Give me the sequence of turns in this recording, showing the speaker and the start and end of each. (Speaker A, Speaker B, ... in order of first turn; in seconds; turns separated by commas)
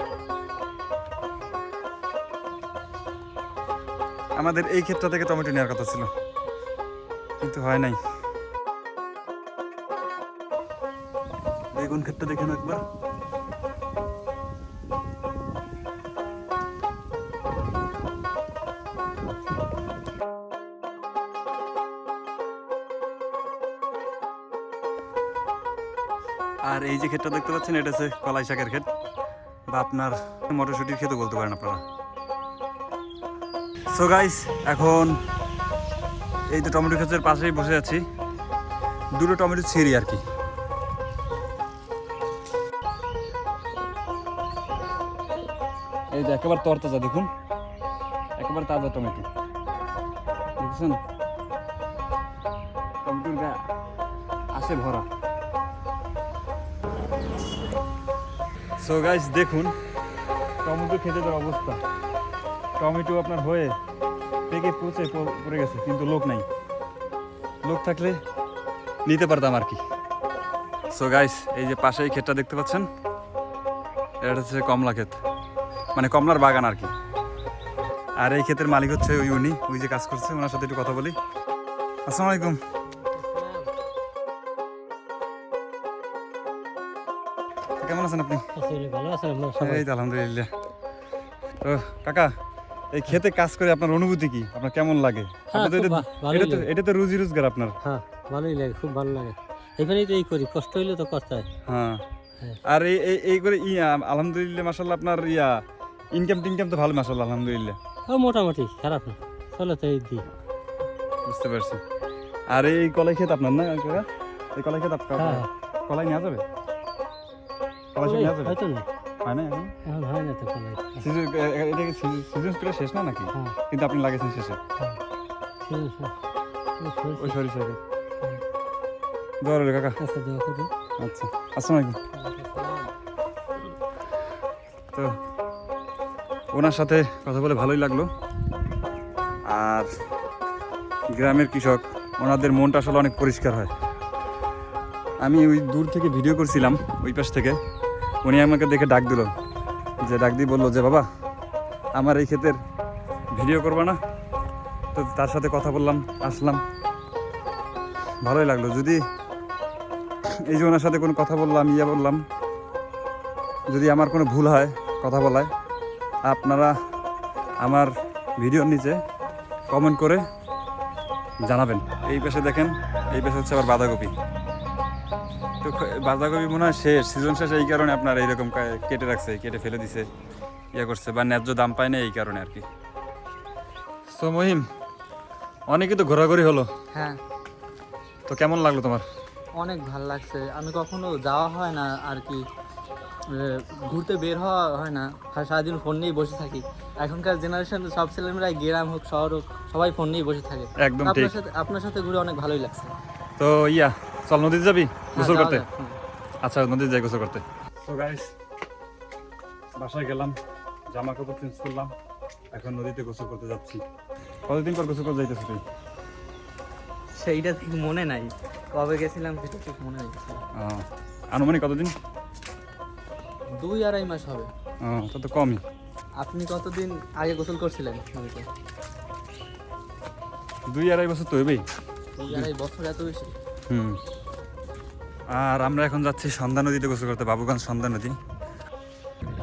Speaker A: 4.3-6.1, Speaker A: 7.4-8.0, Speaker A: 11.7-12.8, Speaker A: 26.6-28.9, Speaker A: 29.7-31.8, Speaker A: 33.9-35.2, Speaker A: 36.5-38.0, Speaker A: 39.1-40.2, Speaker A: 46.1-47.3, Speaker A: 48.4-49.3, Speaker A: 50.6-51.0, Speaker A: 53.0-53.6, Speaker A: 54.5-55.1, Speaker A: 58.8-59.7, Speaker A: 60.6-61.8, Speaker A: 62.8-63.7, Speaker A: 64.5-66.5, Speaker A: 67.6-68.2, Speaker A: 69.0-69.8, Speaker A: 70.9-72.9, Speaker A: 74.2-75.2, Speaker A: 75.9-76.9, Speaker A: 78.2-81.2, Speaker A: 82.1-82.6, Speaker B: 83.0-83.7, Speaker A: 87.8-88.5, Speaker B: 88.5-89.8, Speaker A: 89.6-90.5, Speaker A: 91.6-92.3, Speaker A: 92.9-97.8, Speaker B: 95.5-96.7, Speaker B: 97.8-101.5, Speaker A: 101.7-102.0, Speaker A: 102.6-105.6, Speaker A: 106.1-107.8, Speaker B: 108.1-110.2, Speaker A: 111.2-111.8, Speaker A: 112.5-116.4, Speaker B: 115.2-115.5, Speaker A: 117.9-118.6, Speaker B: 118.0-118.9, Speaker A: 119.2-119.7, Speaker B: 119.8-121.0, Speaker A: 121.0-124.6, Speaker B: 125.6-126.1, Speaker B: 126.8-127.4, Speaker A: 127.2-127.8, Speaker A: 129.4-130.0, Speaker B: 130.0-130.7, Speaker A: 131.0-132.0, Speaker C: 132.2-132.5, Speaker B: 132.2-132.9, Speaker A: 136.5-138.1, Speaker A: 139.4-139.9, Speaker A: 141.1-143.7, Speaker A: 145.2-147.6, Speaker A: 148.2-149.3, Speaker A: 150.0-151.1, Speaker A: 151.9-152.6, Speaker A: 153.3-154.0, Speaker A: 154.9-156.6, Speaker A: 158.2-159.0, Speaker A: 160.4-162.2, Speaker A: 163.7-165.5, Speaker A: 166.2-166.7, Speaker A: 167.6-169.0, Speaker A: 169.7-170.2, Speaker A: 171.4-174.1, Speaker A: 175.6-180.1, Speaker A: 180.7-182.7, Speaker A: 184.1-184.6, Speaker A: 185.7-186.7, Speaker C: 186.9-187.2, Speaker A: 188.3-189.0, Speaker C: 189.6-192.4, Speaker C: 193.3-202.9, Speaker A: 200.8-201.3, Speaker A: 203.4-205.6, Speaker C: 205.1-206.0, Speaker A: 206.4-208.3, Speaker A: 209.8-210.4, Speaker A: 210.9-211.9, Speaker A: 212.5-213.8, Speaker A: 214.5-215.6, Speaker C: 217.2-220.4, Speaker A: 220.5-221.9, Speaker C: 223.6-224.5, Speaker A: 224.8-225.6, Speaker C: 226.2-228.4, Speaker A: 230.7-231.6, Speaker C: 232.2-233.3, Speaker A: 233.7-234.0, Speaker A: 235.3-238.2